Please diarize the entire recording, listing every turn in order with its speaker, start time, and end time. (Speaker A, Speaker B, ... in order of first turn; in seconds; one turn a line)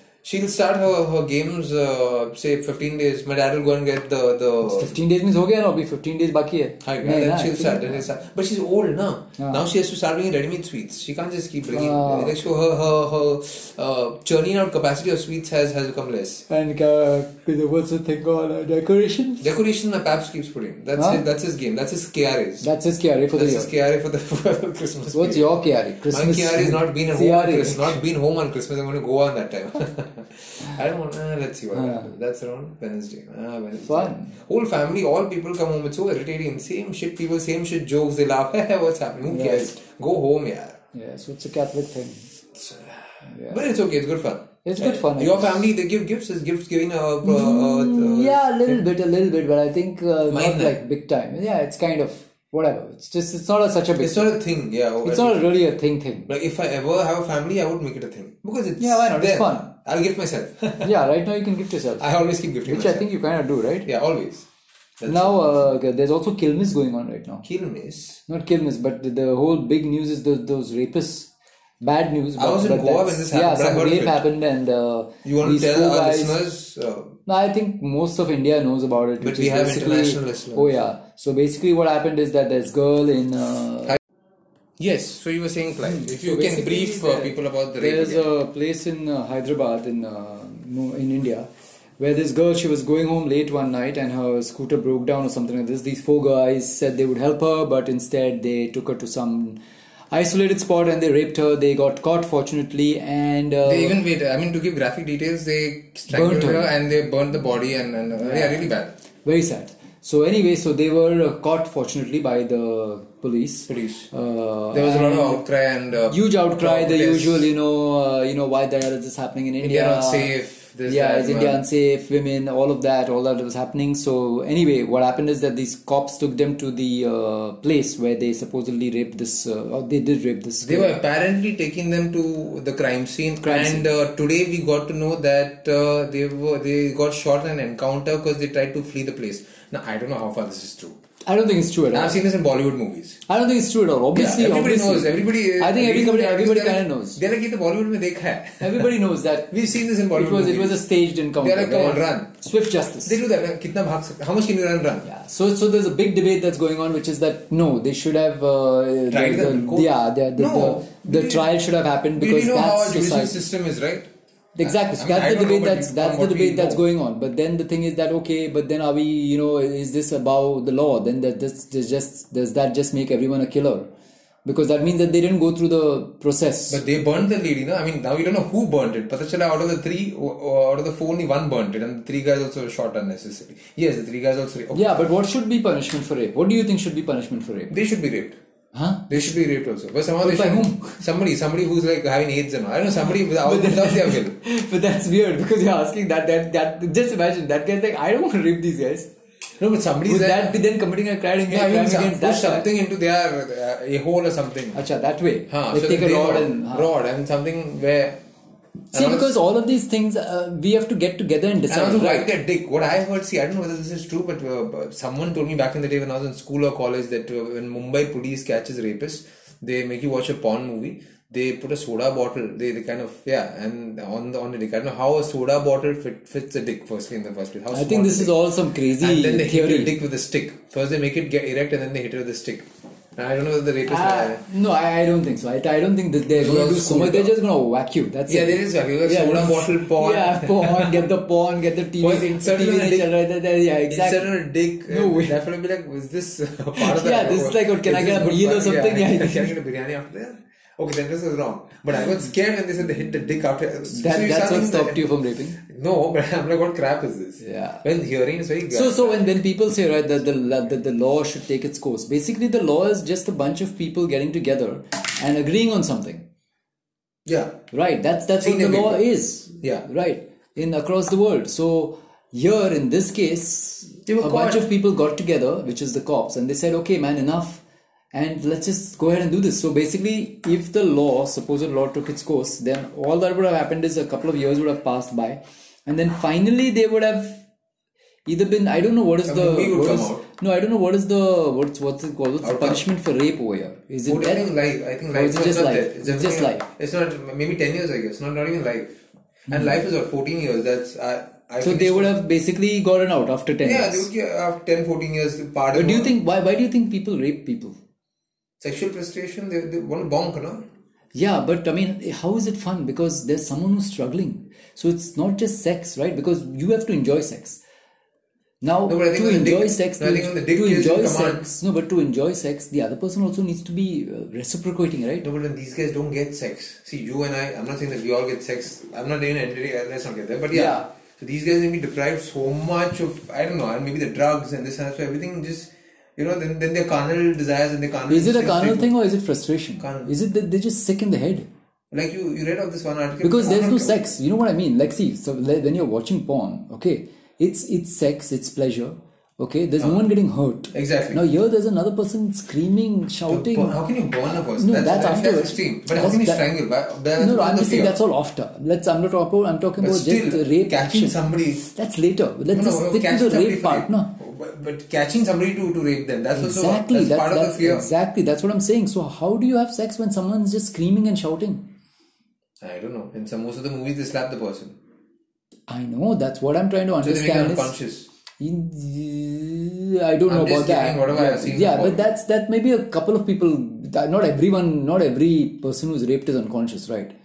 Speaker A: 0.2-5.0
Speaker B: 4.6-8.1
Speaker A: 6.8-16.4
Speaker B: 9.4-9.7
Speaker B: 11.7-12.4
Speaker B: 16.5-19.5
Speaker A: 19.4-22.7
Speaker B: 21.0-21.2
Speaker B: 22.6-23.8
Speaker A: 23.4-25.5
Speaker B: 25.1-28.0
Speaker A: 26.1-40.8
Speaker B: 31.7-32.1
Speaker B: 33.8-34.3
Speaker B: 39.2-39.8
Speaker B: 40.9-42.3
Speaker A: 42.5-48.8
Speaker B: 43.3-43.6
Speaker B: 44.6-45.6
Speaker B: 47.2-54.3
Speaker A: 50.3-50.8
Speaker A: 54.0-55.5
Speaker B: 55.0-56.3
Speaker A: 56.3-60.9
Speaker B: 58.8-59.7
Speaker B: 60.8-62.1
Speaker A: 62.0-63.1
Speaker B: 62.6-63.9
Speaker A: 63.9-64.5
Speaker A: 65.0-65.7
Speaker B: 65.1-67.5
Speaker A: 67.4-68.2
Speaker B: 68.3-71.3
Speaker B: 71.8-76.4
Speaker A: 72.4-74.2
Speaker A: 75.2-77.2
Speaker B: 77.3-84.0
Speaker A: 79.2-80.8
Speaker A: 84.8-88.3
Speaker B: 85.8-91.5
Speaker B: 92.0-99.6
Speaker B: 100.1-104.0
Speaker A: 103.6-109.0
Speaker B: 106.1-106.8
Speaker B: 108.2-108.7
Speaker B: 109.2-115.4
Speaker A: 113.7-114.1
Speaker A: 114.7-117.5
Speaker B: 116.1-120.3
Speaker A: 119.6-121.6
Speaker B: 120.9-130.9
Speaker A: 130.6-141.0
Speaker B: 133.4-133.9
Speaker B: 141.2-142.2
Speaker A: 141.9-143.2
Speaker B: 143.3-147.2
Speaker A: 144.1-149.0
Speaker B: 148.6-149.6
Speaker A: 149.5-150.8
Speaker B: 150.1-153.2
Speaker A: 151.4-152.3
Speaker A: 153.0-155.1
Speaker B: 155.0-163.4
Speaker A: 159.1-161.5
Speaker A: 162.1-164.1
Speaker B: 164.6-173.9
Speaker A: 164.6-166.8
Speaker B: 174.4-176.8
Speaker A: 176.7-185.1
Speaker B: 184.7-187.8
Speaker A: 187.7-188.4
Speaker B: 188.7-189.3
Speaker A: 189.1-194.4
Speaker B: 190.2-191.0
Speaker B: 193.3-199.1
Speaker A: 199.6-200.6
Speaker B: 200.1-202.7
Speaker A: 201.5-204.8
Speaker B: 204.7-206.9
Speaker A: 205.5-208.2
Speaker B: 208.9-212.3
Speaker A: 208.9-209.3
Speaker A: 211.7-228.4
Speaker B: 227.7-230.0
Speaker A: 228.9-234.4
Speaker B: 233.8-245.4
Speaker A: 236.4-237.4
Speaker A: 238.3-241.1
Speaker A: 242.0-243.1
Speaker A: 243.9-255.1
Speaker B: 246.8-249.6
Speaker B: 253.9-255.6
Speaker A: 255.6-259.4
Speaker B: 257.4-257.8
Speaker B: 258.7-266.3
Speaker A: 267.3-267.6
Speaker B: 267.7-277.6
Speaker A: 268.4-269.1
Speaker A: 269.6-269.9
Speaker A: 274.1-274.7
Speaker B: 278.1-287.4
Speaker B: 288.3-294.5
Speaker A: 289.2-290.2
Speaker A: 292.4-292.9
Speaker A: 294.1-298.9
Speaker B: 295.1-296.7
Speaker A: 299.5-302.2
Speaker B: 299.5-299.8
Speaker B: 301.6-304.1
Speaker A: 303.6-306.2
Speaker B: 305.7-307.8
Speaker A: 308.6-310.6
Speaker B: 311.1-317.6
Speaker B: 318.6-325.3
Speaker A: 318.9-321.5
Speaker A: 325.2-338.9
Speaker B: 330.5-330.9
Speaker B: 338.1-341.5
Speaker A: 339.8-340.1
Speaker A: 341.9-344.1
Speaker B: 343.2-356.5
Speaker A: 349.8-350.1
Speaker A: 350.7-351.2
Speaker A: 353.3-358.0
Speaker B: 357.1-364.1
Speaker A: 359.8-361.6
Speaker A: 362.5-367.9
Speaker B: 366.3-371.7
Speaker A: 372.6-374.8
Speaker B: 375.7-377.7
Speaker A: 377.0-378.1
Speaker B: 378.4-387.1
Speaker A: 380.3-382.1